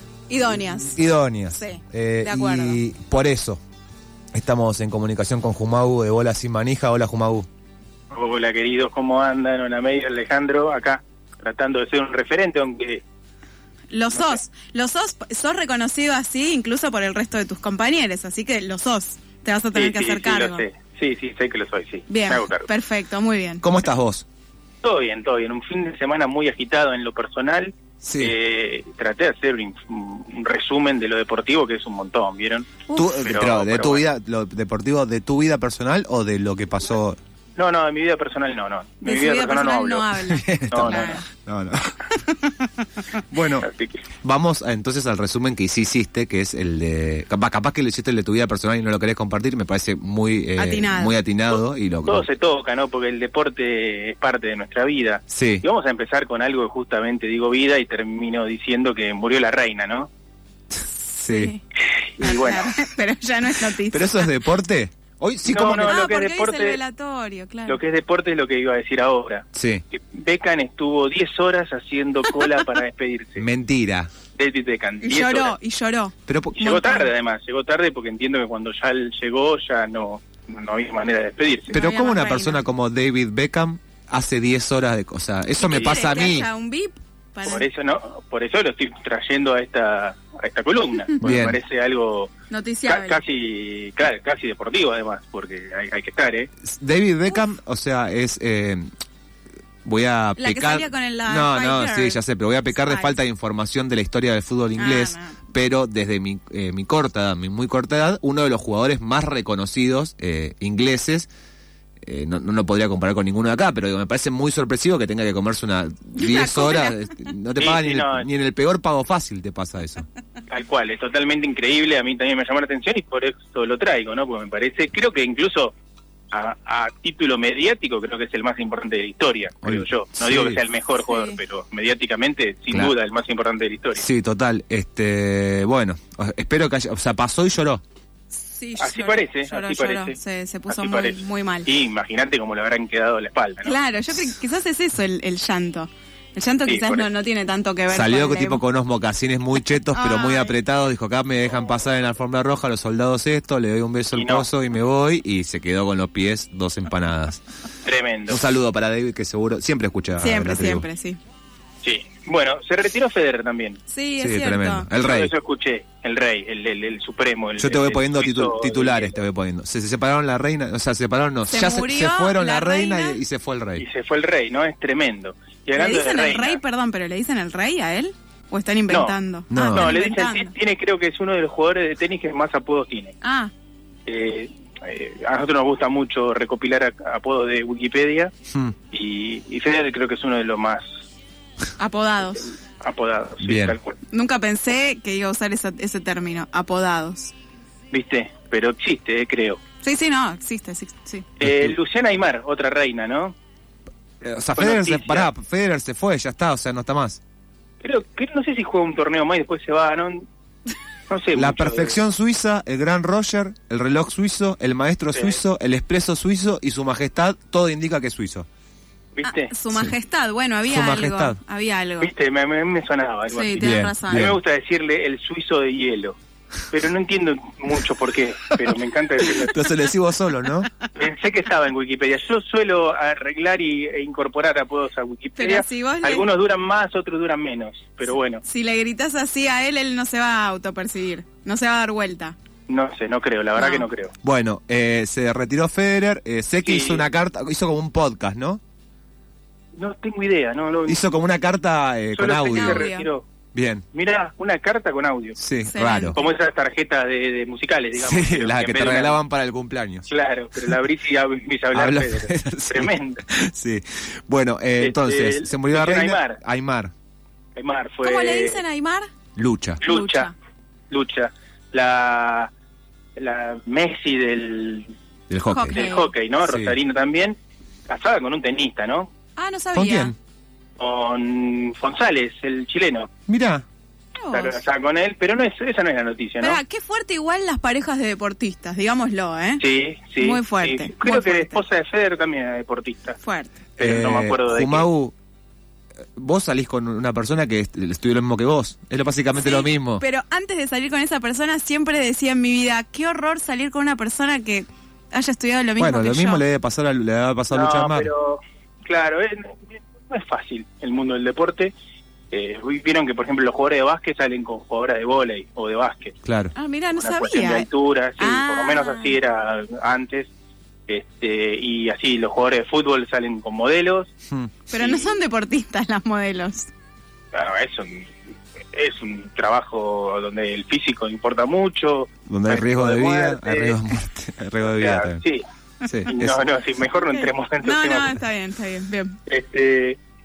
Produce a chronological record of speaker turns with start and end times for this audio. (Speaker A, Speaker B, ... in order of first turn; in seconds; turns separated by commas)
Speaker A: 0.3-1.0, Speaker B: 0.6-3.6, Speaker A: 1.5-2.8, Speaker B: 4.3-7.5, Speaker C: 8.1-13.0, Speaker A: 13.9-20.6, Speaker C: 14.1-14.4, Speaker C: 19.7-22.7, Speaker A: 22.1-23.6, Speaker B: 23.6-24.2, Speaker C: 24.8-34.0, Speaker B: 28.0-28.3, Speaker B: 32.9-37.2, Speaker C: 37.5-40.1, Speaker A: 39.0-41.2, Speaker B: 40.2-42.0, Speaker C: 40.7-41.2, Speaker A: 42.2-42.7, Speaker B: 43.3-43.7, Speaker C: 43.6-44.0, Speaker B: 44.2-52.2, Speaker A: 50.6-51.1, Speaker C: 52.0-60.1, Speaker B: 55.3-55.6, Speaker A: 61.1-61.6, Speaker B: 61.2-61.5, Speaker C: 62.2-62.7, Speaker A: 62.2-64.3, Speaker B: 63.9-66.0, Speaker C: 65.4-66.8, Speaker A: 65.8-67.8, Speaker C: 67.7-73.5, Speaker B: 69.5-69.8, Speaker B: 73.4-74.1, Speaker C: 74.3-75.5, Speaker A: 75.0-77.1, Speaker B: 76.3-76.7, Speaker C: 76.5-81.8, Speaker A: 81.7-82.6, Speaker B: 81.7-86.5, Speaker A: 85.6-87.7, Speaker C: 85.7-86.1, Speaker C: 87.4-92.3, Speaker B: 91.2-91.6, Speaker A: 92.5-93.2, Speaker C: 92.9-96.5, Speaker B: 96.6-98.9, Speaker B: 99.8-111.3, Speaker A: 100.4-102.2, Speaker A: 102.7-103.2, Speaker A: 104.8-105.4, Speaker B: 112.0-120.0, Speaker A: 116.2-117.1, Speaker C: 117.5-118.3, Speaker C: 120.5-125.7, Speaker C: 126.3-134.1, Speaker B: 129.6-130.6, Speaker A: 131.0-131.4, Speaker B: 133.9-137.8, Speaker A: 138.3-141.7, Speaker C: 138.8-140.2, Speaker C: 140.7-143.8, Speaker A: 143.6-148.6, Speaker C: 146.7-147.1, Speaker B: 147.9-157.4, Speaker A: 149.9-150.6, Speaker C: 154.1-154.5, Speaker C: 157.8-158.4, Speaker B: 158.3-160.8, Speaker A: 160.2-161.2, Speaker C: 161.8-163.8, Speaker A: 163.9-164.9, Speaker B: 164.2-165.3, Speaker C: 164.9-169.2, Speaker B: 167.6-173.8, Speaker A: 171.5-173.2, Speaker C: 173.8-176.6, Speaker A: 175.8-180.5, Speaker C: 178.9-179.2, Speaker B: 179.5-179.9, Speaker C: 179.7-183.1, Speaker A: 183.2-183.5, Speaker C: 184.1-188.3, Speaker C: 188.9-190.9, Speaker A: 191.8-192.5, Speaker C: 192.8-194.0, Speaker B: 193.4-193.8, Speaker A: 194.1-197.3, Speaker C: 197.9-199.6, Speaker A: 199.8-201.2, Speaker C: 201.4-203.3, Speaker B: 201.4-201.8, Speaker B: 204.2-207.2, Speaker C: 204.6-205.3, Speaker C: 207.8-210.3, Speaker C: 211.1-212.0, Speaker B: 211.3-218.5, Speaker C: 215.1-215.4, Speaker C: 219.1-219.5, Speaker A: 219.2-222.1, Speaker B: 220.7-221.4, Speaker C: 222.0-226.2, Speaker A: 223.3-224.3, Speaker B: 223.6-224.4, Speaker C: 226.7-229.7, Speaker B: 229.2-230.7, Speaker C: 230.9-238.4, Speaker A: 235.4-236.2, Speaker A: 238.4-242.3, Speaker C: 242.7-244.1, Speaker A: 243.6-243.9, Speaker B: 244.2-248.6, Speaker C: 246.6-247.1, Speaker C: 249.8-251.1, Speaker B: 250.9-252.9, Speaker C: 252.1-253.2, Speaker A: 252.4-253.1, Speaker B: 253.5-253.8, Speaker C: 253.9-255.4, Speaker B: 255.4-256.2, Speaker A: 255.7-256.2, Speaker C: 256.1-259.2, Speaker B: 258.0-260.1, Speaker C: 260.1-263.2, Speaker B: 261.7-266.9, Speaker C: 264.8-266.4, Speaker C: 267.6-268.6, Speaker A: 268.0-269.1, Speaker B: 269.4-269.8, Speaker C: 269.8-270.3, Speaker A: 269.9-270.3, Speaker C: 270.9-272.5, Speaker C: 273.2-274.9, Speaker B: 275.3-275.8, Speaker A: 275.5-276.1, Speaker C: 275.7-277.4, Speaker B: 276.4-276.8, Speaker C: 277.9-279.1, Speaker A: 279.4-280.1, Speaker B: 279.7-280.1, Speaker C: 280.8-283.1, Speaker B: 283.3-283.6, Speaker A: 284.2-284.6, Speaker C: 284.3-286.6, Speaker A: 286.4-289.6, Speaker C: 289.6-293.2, Speaker A: 290.2-291.6, Speaker A: 293.2-293.6, Speaker C: 293.8-294.9, Speaker B: 293.8-295.1, Speaker B: 296.2-300.0, Speaker A: 299.4-306.4, Speaker B: 305.8-308.1, Speaker C: 307.5-311.7, Speaker C: 312.3-316.2, Speaker B: 316.2-316.5, Speaker A: 316.6-319.2, Speaker C: 316.9-320.3, Speaker C: 320.9-324.1, Speaker A: 324.7-326.7, Speaker C: 324.7-325.1, Speaker C: 327.3-328.1, Speaker C: 328.7-333.8, Speaker B: 332.3-335.2, Speaker C: 334.6-335.4, Speaker B: 335.9-336.4, Speaker C: 336.1-338.2, Speaker A: 337.0-339.2, Speaker C: 339.3-340.0